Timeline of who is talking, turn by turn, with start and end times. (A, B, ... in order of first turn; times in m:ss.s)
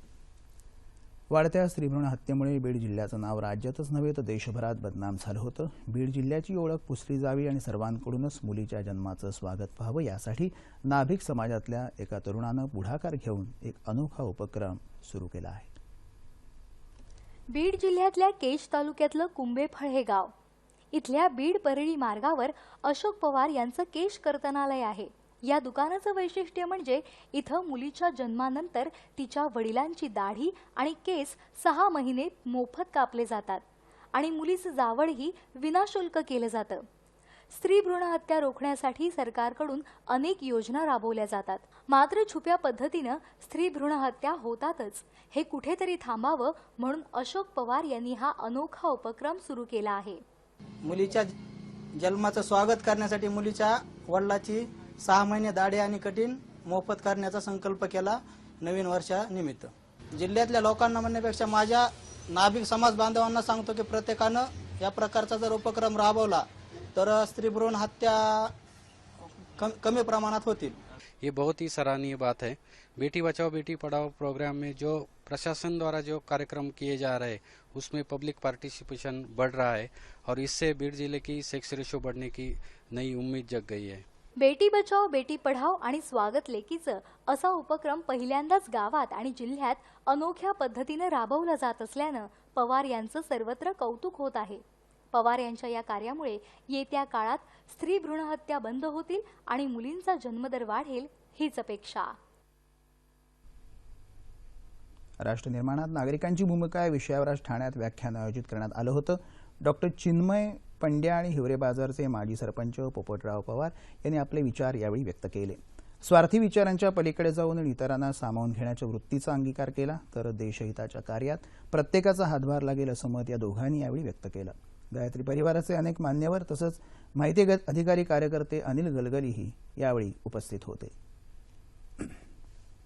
0:01.3-0:15.7 A
0:17.5-0:20.3 B
0:20.9-0:33.6 B
0:34.1-0:36.9 B
0:37.5-0:50.2 B
0:50.8-0:51.3 C
0:52.0-1:08.5 C
1:09.6-1:10.8 C
1:11.2-1:24.0 D
1:24.4-1:42.2 B
1:45.2-2:10.9 A